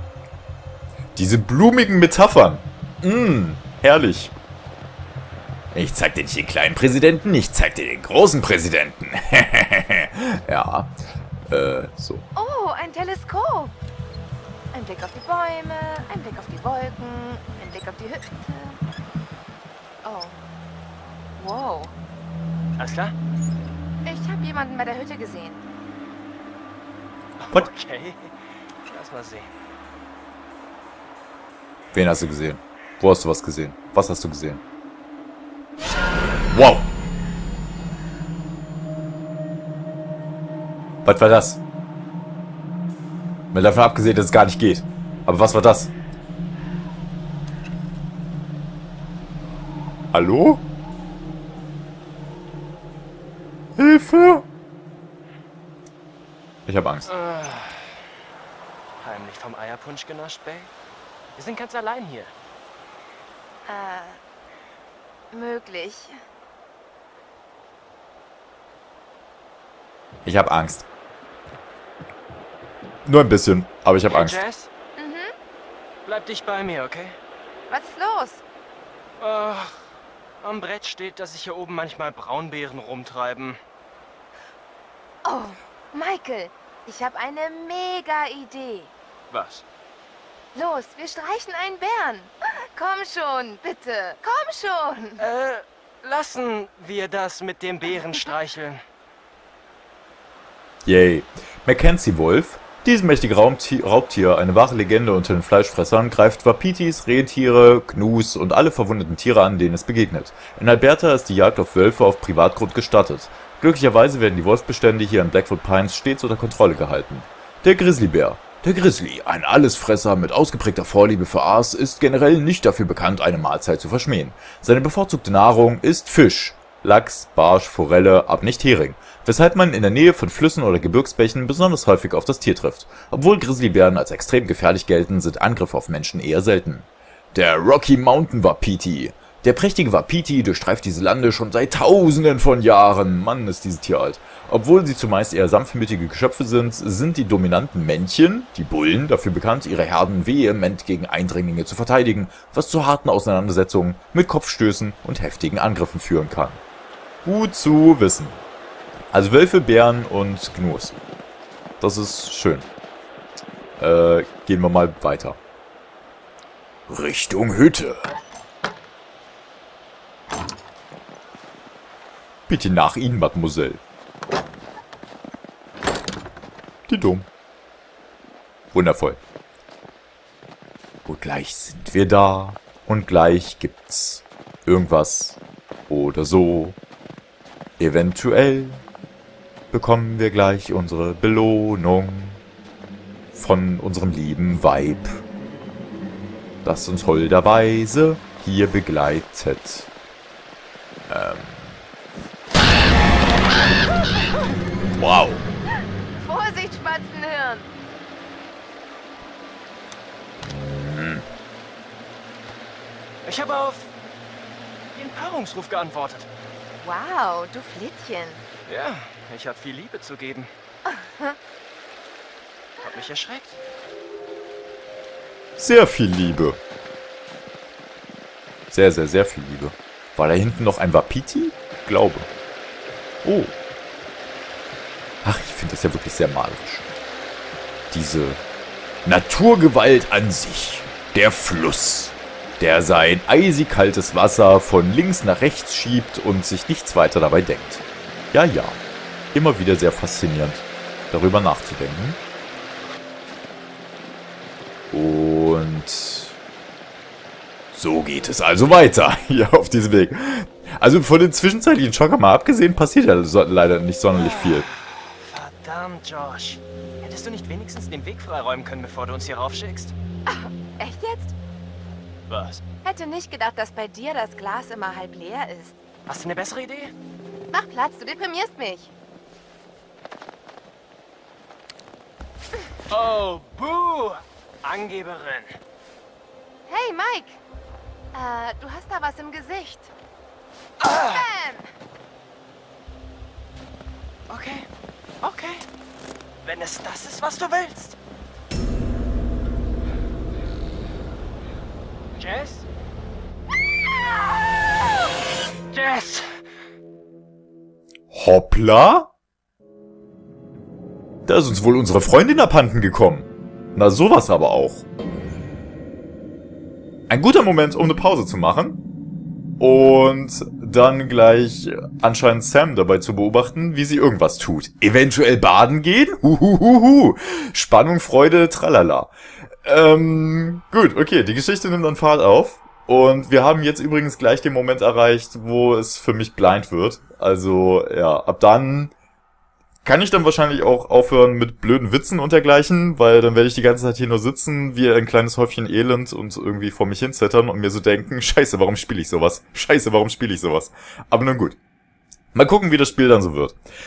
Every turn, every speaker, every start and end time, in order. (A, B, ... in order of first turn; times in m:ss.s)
0:01.2-0:04.3 A
0:05.7-0:10.9 A
0:11.5-0:12.2 A
0:12.4-0:13.7 B
0:14.7-0:18.8 B
0:20.0-0:20.4 B
0:21.4-0:21.9 B
0:22.8-0:23.2 C
0:24.0-0:25.6 B
0:27.4-0:28.3 C
0:28.8-0:29.5 C
0:31.9-0:34.6 A
0:36.5-0:36.9 A
0:41.0-0:41.6 A
0:43.5-0:45.9 A
0:50.1-0:50.6 A
0:53.8-0:54.4 A
0:56.7-0:57.1 A
0:57.0-0:58.0 C
0:59.0-1:00.7 C
1:01.4-1:02.3 C
1:03.6-1:04.2 B
1:05.3-1:06.2 B
1:10.2-1:10.9 A
1:13.0-1:14.4 A
1:14.1-1:14.7 C
1:15.0-1:15.3 B
1:16.0-1:17.2 C
1:17.7-1:18.4 B
1:19.2-1:23.6 C
1:25.2-1:28.9 B
1:29.3-1:29.6 C
1:30.5-1:35.2 B
1:35.2-1:38.8 C
1:40.8-2:36.6 A
2:37.2-2:38.4 A
2:39.1-2:41.0 A
2:41.8-2:42.7 A
2:43.8-2:45.4 A
2:46.9-2:48.1 A
2:52.5-2:53.8 A
2:56.9-2:57.3 A
2:58.7-2:59.2 A
3:01.0-3:06.8 A
3:07.8-3:08.8 A
3:09.7-3:12.4 A
3:13.3-3:15.2 A
3:16.6-3:19.9 A
3:21.1-3:21.8 A
3:24.9-3:25.4 A
3:26.1-3:27.7 B
3:30.4-3:31.2 A
3:33.2-3:33.9 C
3:34.9-3:36.3 C
3:36.8-3:38.4 B
3:38.6-3:40.5 C
3:40.9-3:41.4 B
3:42.8-3:43.6 C
3:45.6-3:46.6 A
3:48.7-3:52.3 A
3:53.2-3:53.5 A
3:55.2-3:56.9 A
3:57.9-3:58.4 A
3:59.0-4:08.8 A
4:09.3-4:12.2 A
4:14.9-4:16.4 A
4:17.7-4:24.7 A
4:24.1-4:29.9 C
4:30.3-4:31.3 B
4:32.3-4:32.6 C
4:32.8-4:35.8 B
4:36.1-4:36.9 C
4:37.5-4:38.9 B
4:42.9-4:45.6 C
4:46.7-4:47.4 B
4:48.1-4:49.9 B
4:50.8-4:51.2 C
4:50.9-4:51.7 B
4:54.3-4:54.7 C
4:55.2-4:55.7 C
4:56.4-4:58.0 C
5:02.1-5:02.7 C
5:05.7-5:06.4 C
5:08.1-5:09.1 A
5:11.2-5:14.8 A
5:17.1-5:18.8 A
5:19.6-5:29.1 A
5:29.6-5:38.9 A
5:39.8-5:51.6 A
5:52.3-5:53.6 A